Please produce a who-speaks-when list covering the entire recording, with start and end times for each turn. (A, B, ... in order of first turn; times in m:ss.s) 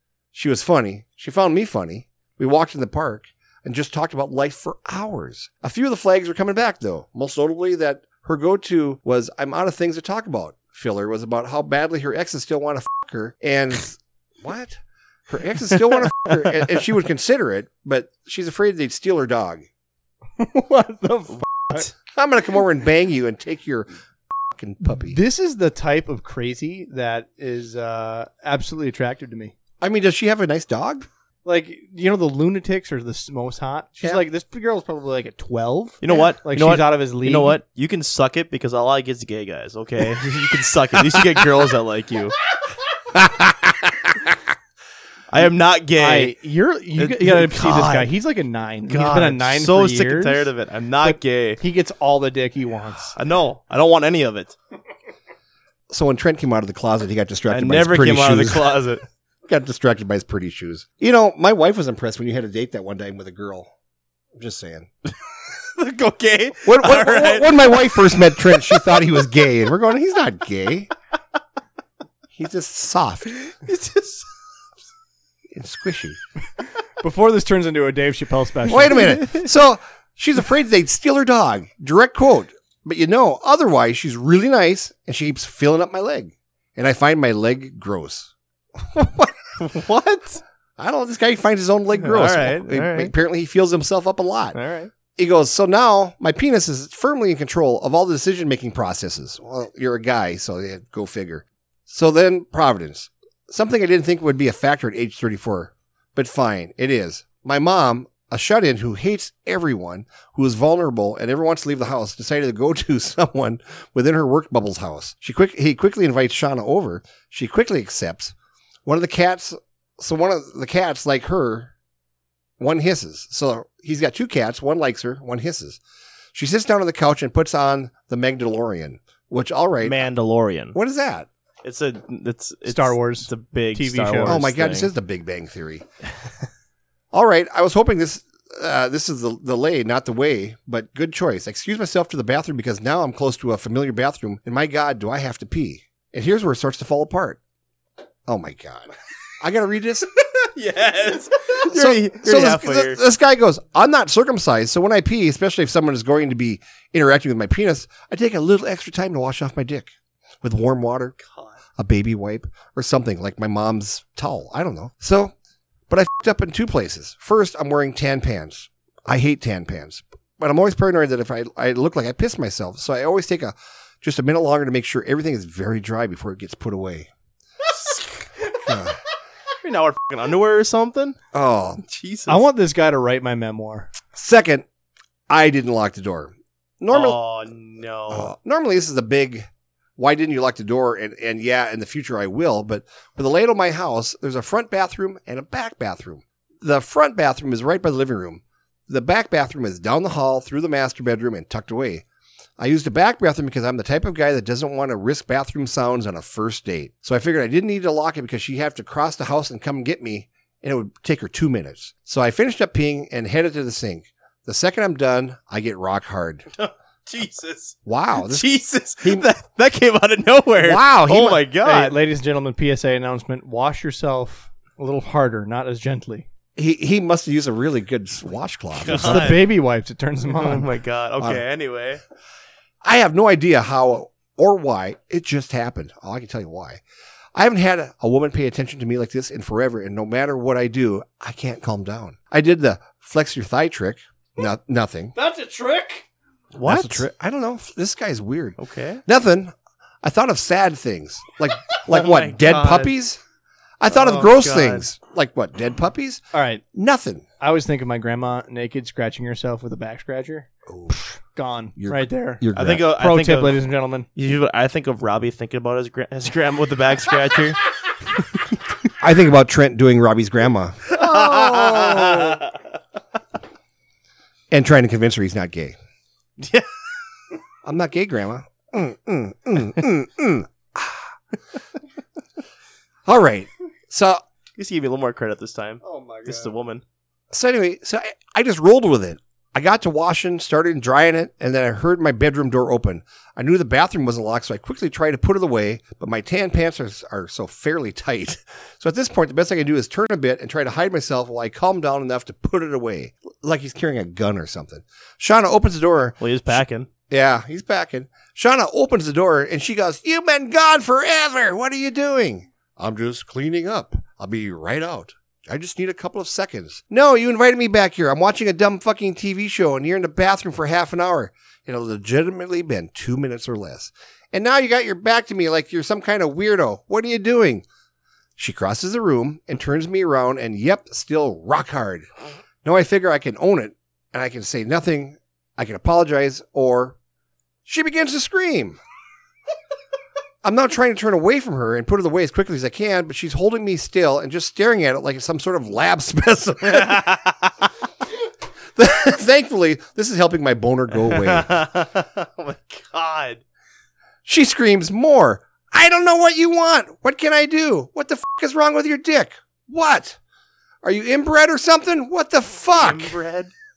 0:00.3-0:19.7 A
0:20.4-0:21.9 B
0:22.0-0:23.9 A
0:24.5-0:25.2 A
0:24.8-0:29.5 B
0:29.8-0:31.1 A
0:31.4-0:37.6 B
0:36.0-0:42.4 C
0:41.1-0:41.5 A
0:43.1-0:43.8 A
0:45.3-0:46.4 C
0:46.0-0:50.5 B
0:47.0-0:48.1 C
0:48.9-0:51.6 C
0:51.0-0:53.2 B
0:53.1-0:54.6 C
0:55.9-0:58.8 A
0:57.5-0:59.0 C
0:59.5-1:03.7 A
1:04.4-1:04.9 A
1:05.8-1:08.9 C
1:06.6-1:10.9 A
1:12.3-1:13.4 A
1:13.4-1:14.3 C
1:15.5-1:16.2 A
1:17.0-1:19.2 B
1:18.7-1:29.4 A
1:29.6-1:30.4 C
1:30.8-1:34.6 A
1:32.0-1:33.1 C
1:34.5-1:34.9 C
1:35.2-1:58.3 A
1:58.9-2:01.7 A
2:02.6-2:05.8 A
2:06.3-2:10.0 A
2:09.8-2:10.8 C
2:10.7-2:11.3 A
2:11.6-2:14.9 C
2:12.7-2:14.4 B
2:14.2-2:15.9 A
2:17.1-2:27.4 A
2:28.3-2:30.1 A
2:30.4-2:33.0 C
2:31.6-2:41.2 A
2:41.2-2:41.5 C
2:41.8-2:45.3 A
2:45.9-2:57.1 A
2:58.7-2:59.0 A
2:59.6-3:01.2 C
3:01.3-3:01.8 A
3:01.8-3:02.4 C
3:02.3-3:03.9 B
3:04.2-3:04.7 A
3:05.3-3:07.2 A
3:06.9-3:08.3 C
3:08.1-3:22.0 A
3:22.6-3:36.5 A
3:36.6-3:42.0 C
3:37.9-3:38.5 A
3:39.0-3:39.3 A
3:40.6-3:41.4 A
3:41.6-3:46.3 B
3:46.6-3:49.4 A
3:48.8-3:49.4 C
3:48.9-3:50.7 B
3:50.3-3:52.0 C
3:52.8-3:56.8 A
3:57.4-4:05.1 A
4:05.2-4:06.0 B
4:06.6-4:07.0 C
4:06.6-4:13.2 A
4:08.6-4:09.0 C
4:11.9-4:12.9 C
4:13.8-4:17.2 A
4:13.9-4:14.9 C
4:16.3-4:16.6 B
4:17.4-4:22.4 B
4:20.7-4:21.0 A
4:21.8-4:22.8 A
4:22.6-4:23.6 C
4:23.0-4:24.1 B
4:24.2-4:27.6 C
4:29.0-4:32.4 A
4:30.9-4:32.5 C
4:34.5-4:35.8 A
4:36.4-4:36.7 C
4:37.6-4:41.1 A
4:43.0-4:44.2 A
4:44.6-4:46.8 C
4:45.8-4:46.5 A
4:47.3-5:27.6 A
5:06.2-5:06.9 C
5:28.4-5:32.1 A
5:32.6-5:37.0 A
5:37.7-5:38.8 A
5:40.4-5:47.1 A
5:46.7-5:47.5 C
5:48.8-5:51.5 A
5:50.9-5:53.4 C
5:54.3-6:00.2 A
6:00.8-6:03.2 A
6:02.7-6:03.5 C